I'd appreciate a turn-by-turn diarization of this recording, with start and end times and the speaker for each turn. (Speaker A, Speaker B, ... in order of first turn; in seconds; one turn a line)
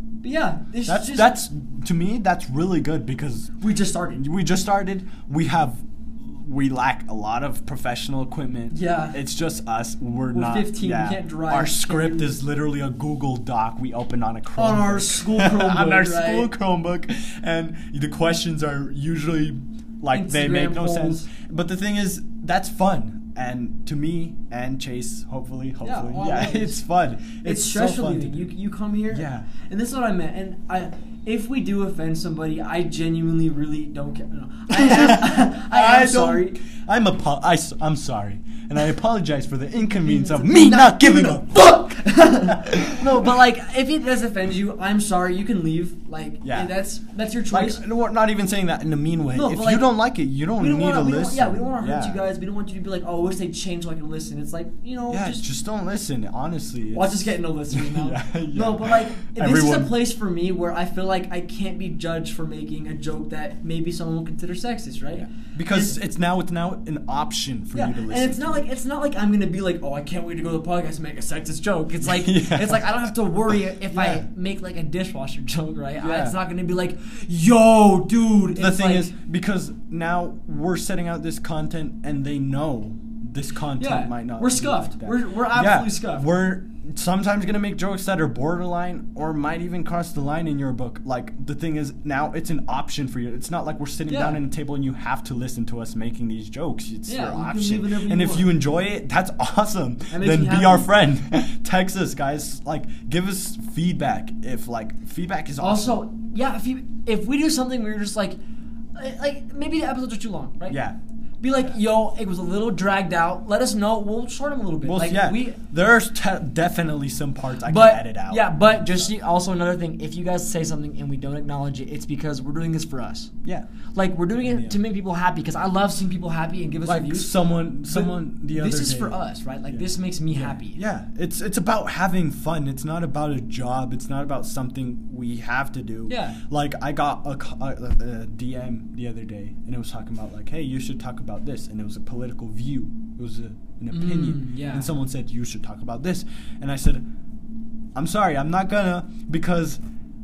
Speaker A: 0.2-1.3
Speaker B: 0.8-3.6
Speaker A: 3.6-4.2
Speaker B: 4.2-28.5
Speaker A: 8.7-9.2
Speaker A: 10.3-12.3
Speaker A: 14.6-16.5
Speaker A: 20.1-21.3
Speaker A: 25.8-26.8
Speaker A: 27.4-36.6
Speaker B: 29.1-29.5
Speaker B: 34.7-41.8
Speaker A: 40.0-47.8
Speaker B: 42.4-43.3
Speaker B: 46.4-46.7
Speaker B: 47.5-52.2
Speaker A: 49.3-49.9
Speaker A: 50.6-55.4
Speaker B: 55.1-60.0
Speaker A: 56.9-66.0
Speaker B: 65.1-68.6
Speaker A: 67.7-79.1
Speaker B: 72.0-73.0
Speaker B: 73.9-74.2
Speaker B: 76.0-76.4
Speaker B: 78.5-106.0
Speaker A: 83.8-86.3
Speaker A: 94.1-94.4
Speaker A: 97.0-98.5
Speaker A: 100.1-100.9
Speaker A: 105.6-108.4
Speaker A: 108.9-110.8
Speaker B: 110.7-111.0
Speaker A: 111.4-115.6
Speaker B: 114.8-119.1
Speaker A: 117.7-123.3
Speaker A: 123.9-130.8
Speaker B: 124.3-124.8
Speaker B: 126.8-129.2
Speaker B: 129.7-147.1
Speaker A: 136.1-136.4
Speaker A: 143.9-144.9
Speaker B: 147.9-149.8